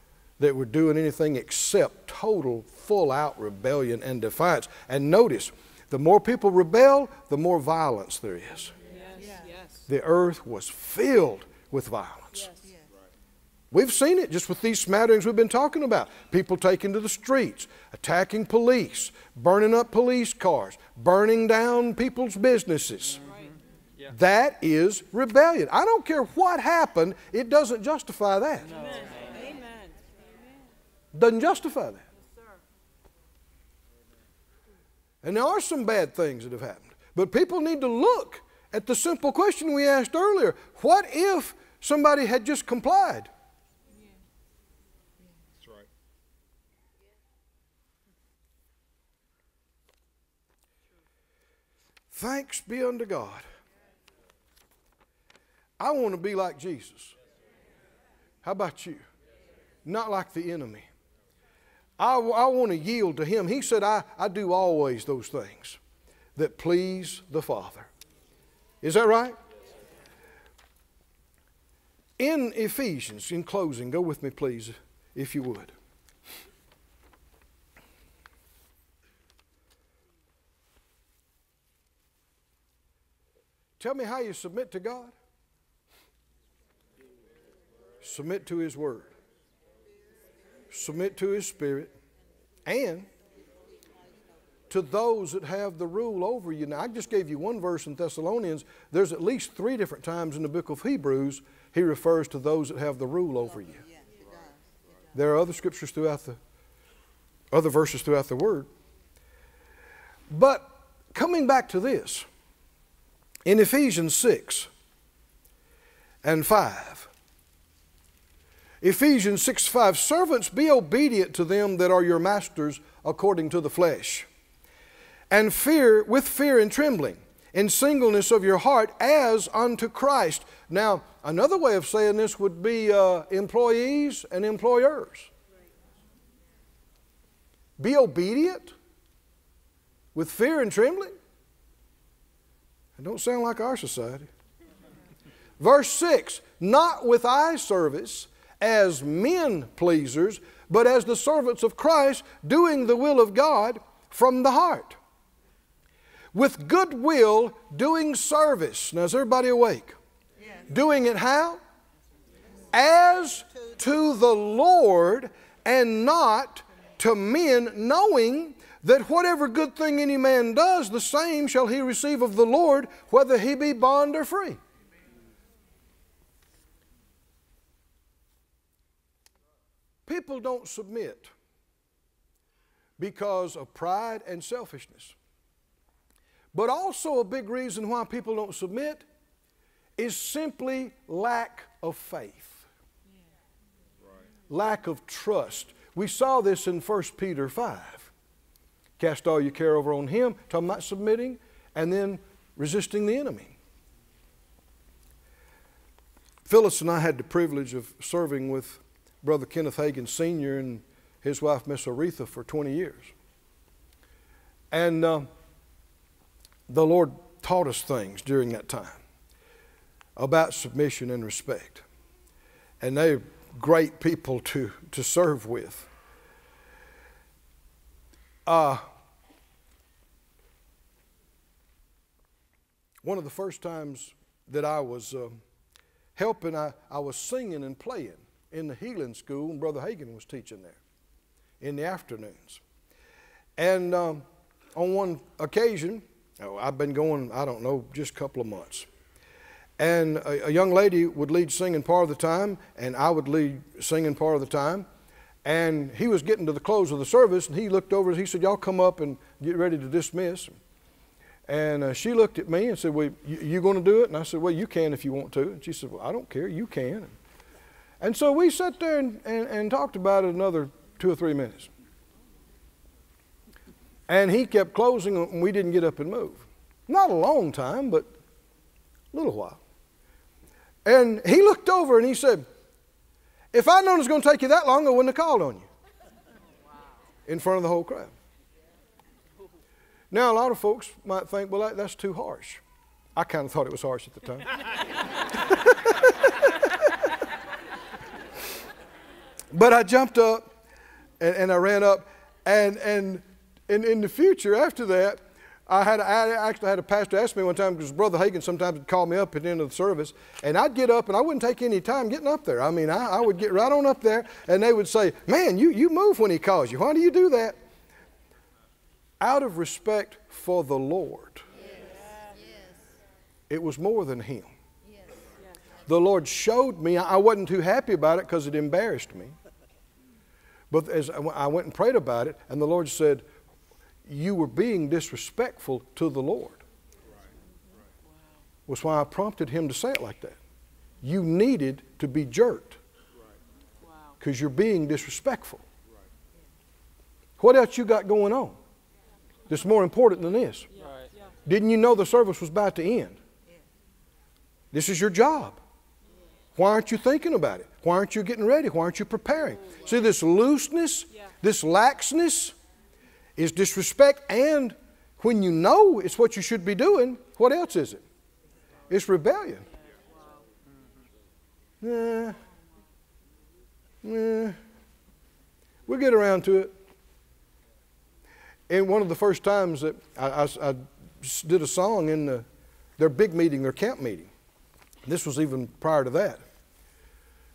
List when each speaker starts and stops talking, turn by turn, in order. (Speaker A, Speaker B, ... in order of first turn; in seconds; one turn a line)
Speaker A: 0.4-8.7
Speaker B: 8.8-9.8
Speaker A: 9.9-12.5
Speaker B: 12.4-12.7
Speaker A: 13.7-23.2
Speaker B: 23.2-23.6
Speaker A: 24.1-28.7
Speaker B: 28.7-30.6
Speaker A: 31.1-32.0
Speaker B: 32.3-32.6
Speaker A: 35.2-43.3
Speaker A: 52.1-53.5
Speaker A: 55.8-57.1
Speaker A: 58.4-59.0
Speaker A: 59.9-60.9
Speaker A: 62.0-65.8
Speaker A: 66.4-67.9
Speaker A: 68.8-69.4
Speaker A: 72.2-75.7
Speaker A: 83.8-85.1
Speaker A: 88.0-89.1
Speaker A: 90.7-91.9
Speaker A: 92.7-93.1
Speaker A: 94.7-103.9
Speaker A: 105.1-106.4
Speaker A: 107.5-108.7
Speaker A: 110.3-112.3
Speaker A: 113.5-114.7
Speaker A: 116.2-117.1
Speaker A: 118.8-124.3
Speaker A: 125.3-135.3
Speaker A: 137.8-138.8
Speaker A: 140.2-141.1
Speaker A: 143.0-144.3
Speaker A: 145.6-155.0
Speaker A: 156.3-160.0
Speaker A: 160.7-161.6
Speaker A: 162.7-174.6
Speaker A: 180.1-181.3
Speaker A: 183.0-185.2
Speaker A: 186.5-189.1
Speaker A: 190.0-192.7
Speaker A: 194.5-198.1
Speaker A: 199.0-203.6
Speaker A: 206.5-213.1
Speaker A: 214.7-215.3
Speaker A: 216.7-219.0
Speaker A: 220.2-221.8
Speaker A: 222.8-225.9
Speaker A: 228.5-228.8
Speaker A: 233.0-235.4
Speaker A: 236.2-240.8
Speaker A: 241.6-242.6
Speaker A: 243.6-244.2
Speaker A: 244.8-248.9
Speaker A: 249.8-254.9
Speaker A: 255.4-260.6
Speaker A: 261.5-267.1
Speaker A: 268.0-271.7
Speaker A: 274.1-278.1
Speaker A: 279.1-279.6
Speaker A: 280.9-282.4
Speaker A: 283.5-285.7
Speaker A: 287.3-288.1
Speaker A: 290.1-292.6
Speaker A: 293.2-294.5
Speaker A: 295.3-296.9
Speaker A: 299.5-300.5
Speaker A: 301.2-317.6
Speaker A: 319.2-321.4
Speaker A: 323.5-324.5
Speaker A: 325.9-329.4
Speaker A: 330.7-333.2
Speaker A: 334.1-336.6
Speaker A: 338.7-340.4
Speaker A: 341.0-342.8
Speaker B: 343.8-344.1
Speaker A: 344.2-345.6
Speaker A: 347.4-348.6
Speaker A: 349.5-350.7
Speaker B: 350.7-351.3
Speaker A: 351.5-353.2
Speaker A: 354.7-355.6
Speaker A: 356.6-362.6
Speaker A: 363.4-368.1
Speaker A: 368.9-369.7
Speaker B: 370.1-370.4
Speaker A: 371.8-372.4
Speaker A: 374.0-374.6
Speaker A: 375.9-376.7
Speaker A: 378.7-382.4
Speaker A: 383.0-384.3
Speaker A: 385.1-386.4